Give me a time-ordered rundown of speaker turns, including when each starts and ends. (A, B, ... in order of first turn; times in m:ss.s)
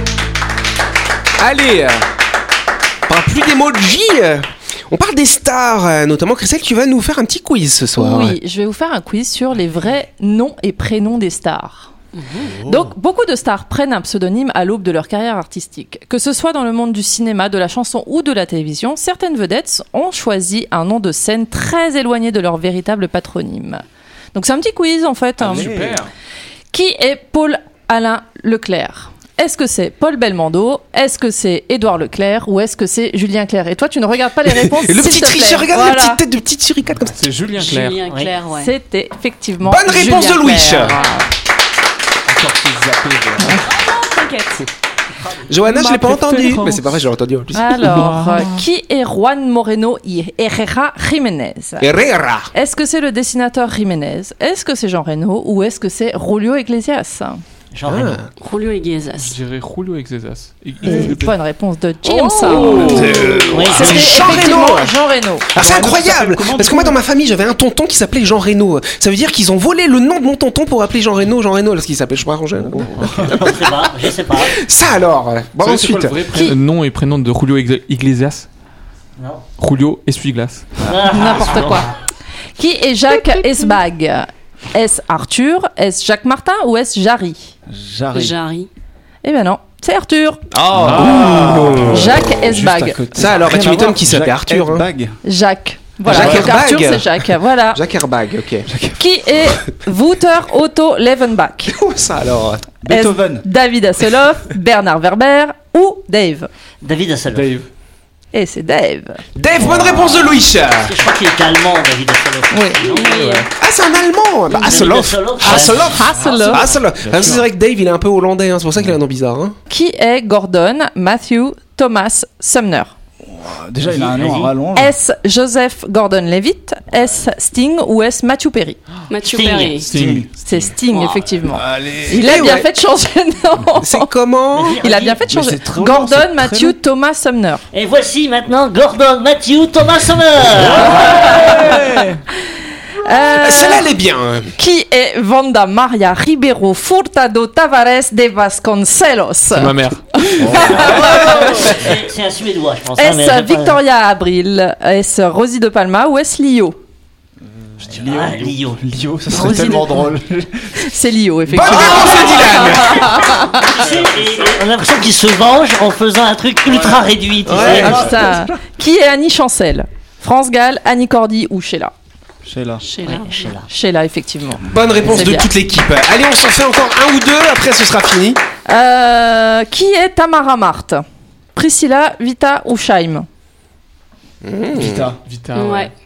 0:01.4-0:02.0 A
0:03.1-0:08.4 A
0:08.0-0:11.9 B
0:12.6-0:23.8 B
0:24.3-0:25.7 B
0:25.4-0:26.1 C
0:25.5-0:26.0 D
0:26.7-0:36.2 B
0:34.5-0:37.2 A
0:37.1-0:38.0 C
0:37.5-0:38.7 E
0:38.1-0:38.3 F
0:38.6-0:41.2 B
0:39.6-0:41.0 A
0:42.3-0:43.6 C
0:43.4-0:43.7 B
0:43.6-0:44.6 E
0:45.5-0:48.0 A
0:45.7-0:46.8 C
0:46.3-0:46.8 E
0:47.5-0:51.9 B
0:47.8-0:48.5 D
0:51.8-0:52.5 A
0:52.5-0:57.4 B
0:57.7-0:58.2 F
0:57.9-0:58.3 A
0:58.4-0:59.4 E
0:59.2-1:01.4 C
1:00.8-1:05.5 B
1:02.0-1:03.3 E
1:02.5-1:03.1 C
1:02.5-1:04.9 A
1:03.5-1:04.5 F
1:05.5-1:07.0 D
1:05.5-1:16.2 A
1:13.0-1:14.6 F
1:15.6-1:18.5 C
1:19.2-1:19.4 F
1:19.6-1:20.7 C
1:20.8-1:21.9 F
1:21.1-1:21.9 B
1:22.6-1:27.5 B
1:27.7-1:28.4 D
1:28.1-1:28.7 E
1:29.2-1:30.4 B
1:30.7-1:35.2 D
1:30.7-1:32.0 C
1:30.9-1:31.8 A
1:31.8-1:33.0 B
1:33.2-1:34.9 A
1:35.2-1:37.8 B
1:36.1-1:38.7 A
1:36.1-1:36.4 C
1:38.7-1:39.0 D
1:39.0-1:41.8 B
1:41.7-1:42.7 A
1:42.8-1:43.4 D
1:42.9-1:46.5 B
1:46.8-1:47.6 F
1:47.3-1:47.7 C
1:48.3-1:49.2 B
1:49.4-1:50.9 A
1:49.6-1:53.4 F
1:52.5-1:52.8 B
1:52.9-1:53.5 E
1:53.6-1:59.6 A
1:54.5-1:56.7 F
1:55.4-1:56.6 B
1:57.0-1:57.5 C
1:59.7-2:02.9 B
2:03.2-2:04.9 D
2:03.8-2:04.5 F
2:04.8-2:08.8 B
2:09.1-2:09.9 E
2:09.3-2:09.7 F
2:09.7-2:10.7 C
2:09.8-2:10.3 D
2:10.4-2:14.1 B
2:10.8-2:11.3 E
2:11.6-2:12.4 D
2:12.1-2:12.7 A
2:13.8-2:14.9 A
2:14.5-2:15.2 F
2:14.8-2:17.6 B
2:15.2-2:16.8 D
2:17.7-2:21.8 F
2:20.6-2:22.2 D
2:23.0-2:23.8 B
2:23.3-2:24.5 A
2:24.6-2:31.8 B
2:29.5-2:30.7 C
2:30.4-2:31.8 D
2:30.8-2:33.8 F
2:33.0-2:36.8 B
2:37.8-2:40.8 D
2:37.9-2:38.8 F
2:39.3-2:40.0 B
2:40.8-2:43.8 B
2:41.5-2:43.2 A
2:41.8-2:48.1 F
2:43.8-2:44.4 C
2:47.5-2:48.1 A
2:47.6-2:51.9 B
2:47.8-2:48.6 D
2:52.4-2:52.8 D
2:52.8-2:53.5 E
2:53.0-2:53.7 F
2:53.7-2:55.5 B
2:54.7-2:58.4 A
2:58.7-3:03.3 B
3:04.4-3:05.1 A
3:04.7-3:05.2 D
3:05.2-3:05.9 C
3:05.5-3:05.9 E